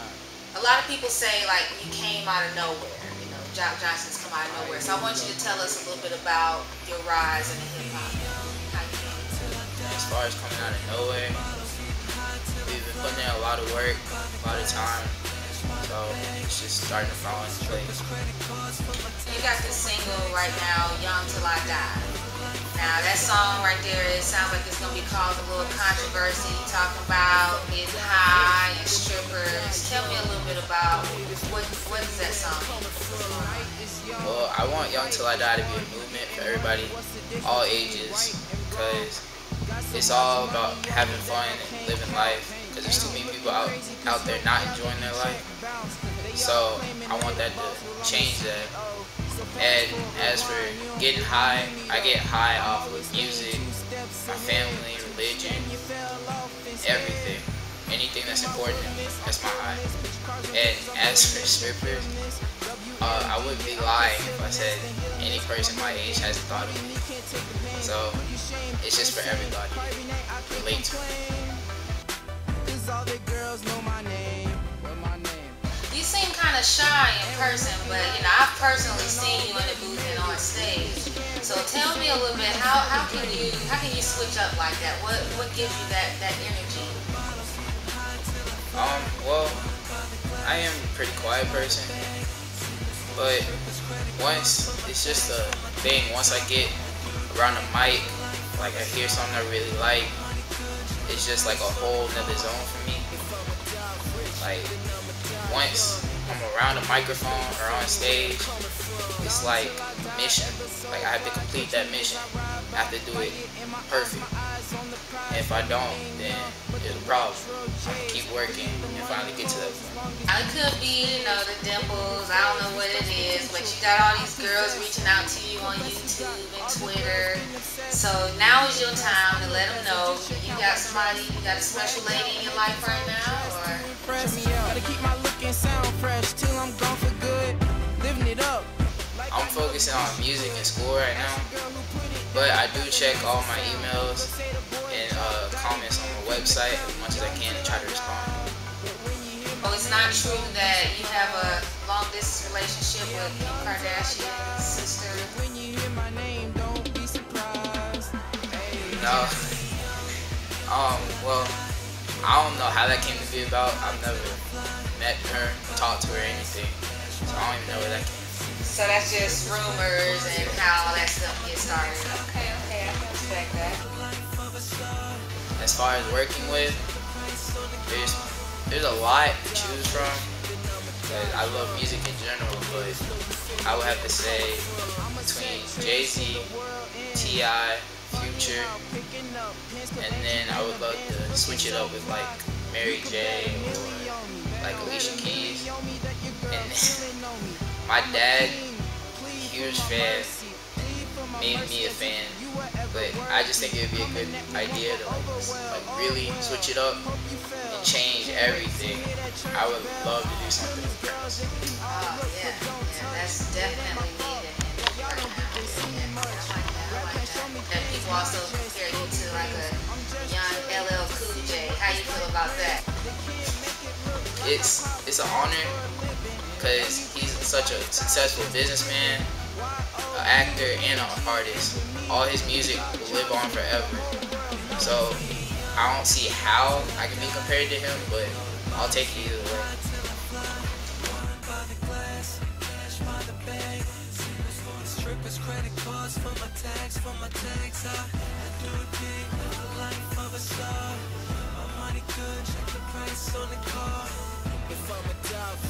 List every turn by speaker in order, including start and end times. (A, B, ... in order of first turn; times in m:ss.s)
0:00.5-0:09.4 A
0:09.8-0:11.4 B
0:12.6-0:15.2 B
0:15.8-0:18.0 B
0:19.2-0:22.1 A
0:22.7-0:33.9 A
0:31.2-0:31.5 C
0:32.8-0:34.3 C
0:34.2-0:39.2 B
0:35.7-0:38.6 C
0:39.9-0:48.5 C
0:39.9-0:45.4 B
0:46.3-0:48.7 B
0:49.4-0:51.0 C
0:49.6-0:53.7 B
0:51.7-0:52.0 C
0:52.8-0:54.3 C
0:54.3-0:55.8 B
0:55.3-0:57.0 C
0:56.8-0:59.8 B
0:58.5-0:59.2 C
1:00.5-1:02.1 B
1:02.8-1:06.4 C
1:03.0-1:07.0 B
1:07.8-1:08.2 B
1:08.8-1:09.9 B
1:10.5-1:11.1 B
1:12.6-1:15.6 C
1:15.9-1:27.1 A
1:19.9-1:21.2 C
1:28.7-1:29.6 B
1:30.4-1:32.1 B
1:33.1-1:33.5 B
1:34.1-1:36.8 B
1:37.3-1:40.2 B
1:41.0-1:43.1 B
1:44.0-1:44.4 C
1:44.4-1:44.7 B
1:45.4-1:48.6 B
1:48.2-1:48.6 C
1:49.2-1:54.3 B
1:49.8-1:51.3 C
1:55.3-2:00.0 B
1:56.0-1:56.8 C
1:57.7-2:00.3 C
2:00.3-2:14.3 A
2:03.1-2:03.5 C
2:06.9-2:07.5 C
2:09.2-2:12.4 C
2:13.8-2:18.7 C
2:19.3-2:21.5 B
2:21.4-2:21.8 C
2:22.3-2:24.3 B
2:24.9-2:28.4 B
2:29.6-2:35.3 A
2:35.4-2:38.9 C
2:38.8-2:39.4 B
2:38.8-2:39.5 A
2:40.7-2:41.6 B
2:42.2-2:44.4 B
2:44.9-2:48.3 B
2:48.6-2:53.8 A
2:50.3-2:50.6 B
2:55.6-2:56.8 B
2:57.9-2:58.2 B
2:58.7-3:00.3 B
3:00.8-3:01.6 C
3:01.1-3:03.0 B
3:03.6-3:04.7 B
3:05.0-3:07.1 C
3:05.2-3:06.5 B
3:07.1-3:08.8 B
3:08.5-3:12.3 C
3:10.0-3:15.7 B
3:13.1-3:16.6 C
3:16.5-3:17.1 B
3:17.8-3:18.6 B
3:19.2-3:21.9 C
3:19.3-3:20.3 B
3:21.3-3:27.0 B
3:22.7-3:23.3 C
3:24.0-3:26.4 C
3:27.7-3:31.5 B
3:28.4-3:29.4 C
3:30.0-3:31.8 C
3:31.8-3:42.8 A
3:37.5-3:39.5 C
3:44.4-3:45.8 B
3:45.8-3:46.4 C
3:46.6-3:49.3 B
3:50.1-3:54.1 B
3:51.8-3:52.1 C
3:52.7-3:53.4 C
3:54.0-3:54.8 C
3:54.8-3:55.2 B
3:55.7-3:59.7 B